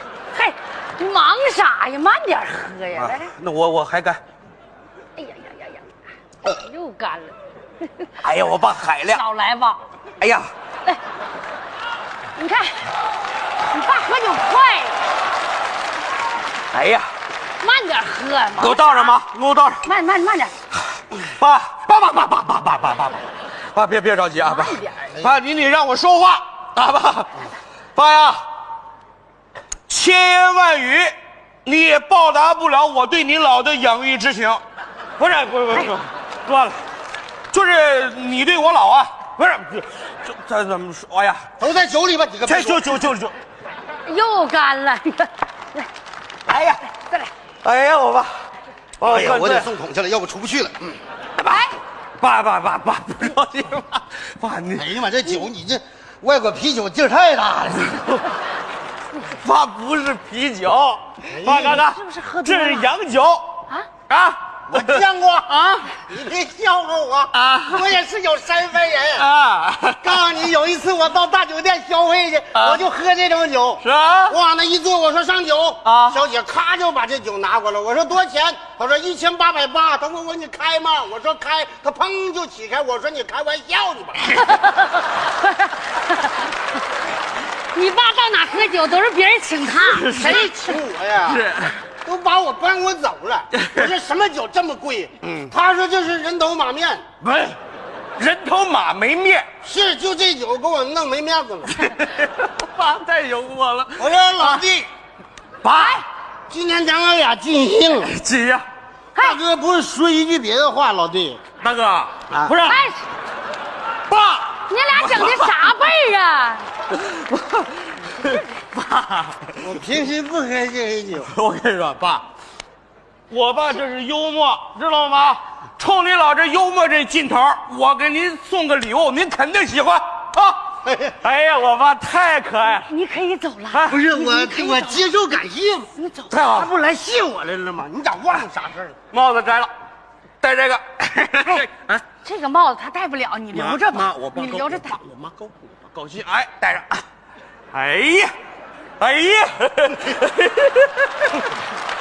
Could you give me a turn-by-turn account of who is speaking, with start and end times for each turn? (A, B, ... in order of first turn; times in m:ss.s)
0:00.3-0:03.3 A
0:02.9-0:04.2 B
0:05.2-0:05.9 A
0:06.4-0:07.3 A
0:08.2-0:09.2 B
0:09.1-0:09.8 A
0:10.2-0:10.5 B
0:12.4-0:12.8 A
0:13.7-0:15.0 A
0:16.7-0:17.1 B
0:17.6-0:19.2 A
0:18.6-0:19.8 B
0:19.8-0:20.5 A
0:21.1-0:28.5 B
0:24.5-0:25.0 A
0:29.9-0:31.1 B
0:31.6-0:34.6 B
0:35.2-0:36.8 B
0:37.5-0:41.5 B
0:41.6-0:42.9 C
0:42.4-0:43.3 B
0:44.0-0:45.8 A
0:46.5-0:46.8 B
0:47.6-0:48.5 B
0:49.0-0:49.7 B
0:49.0-0:51.0 C
0:51.4-0:51.6 B
0:52.2-0:55.0 B
0:54.8-0:58.0 C
0:59.2-1:05.0 B
1:01.3-1:01.8 C
1:01.8-1:02.9 A
1:04.7-1:09.3 C
1:07.3-1:07.9 B
1:09.1-1:10.2 B
1:10.0-1:24.4 C
1:12.5-1:12.8 B
1:13.8-1:14.4 B
1:15.8-1:16.2 B
1:24.5-1:26.4 A
1:27.7-1:30.3 A
1:29.7-1:31.8 B
1:30.2-1:31.4 C
1:32.0-1:37.0 C
1:33.6-1:33.9 B
1:35.2-1:35.5 B
1:37.2-1:37.6 B
1:38.2-1:39.5 B
1:39.6-1:41.8 C
1:41.8-1:44.6 B
1:44.0-1:44.9 C
1:45.6-1:46.0 B
1:45.7-1:46.0 A
1:46.5-1:48.1 C
1:48.0-1:48.6 B
1:49.1-1:49.4 A
1:49.2-1:51.4 C
1:51.6-1:52.7 B
1:52.3-1:52.6 C
1:52.6-1:53.0 A
1:54.1-1:55.7 B
1:54.7-1:56.7 A
1:56.9-1:59.8 B
1:58.2-1:58.4 A
1:59.6-2:01.3 C
2:01.2-2:02.2 B
2:03.3-2:12.9 B
2:10.8-2:11.2 C
2:12.8-2:15.0 A
2:13.7-2:14.0 B
2:13.8-2:15.9 C
2:16.0-2:16.4 A
2:16.3-2:16.7 B
2:16.5-2:19.0 C
2:19.1-2:19.7 B
2:20.4-2:22.0 B
2:22.2-2:25.0 A
2:23.5-2:27.0 B
2:27.7-2:28.3 B
2:29.0-2:31.5 B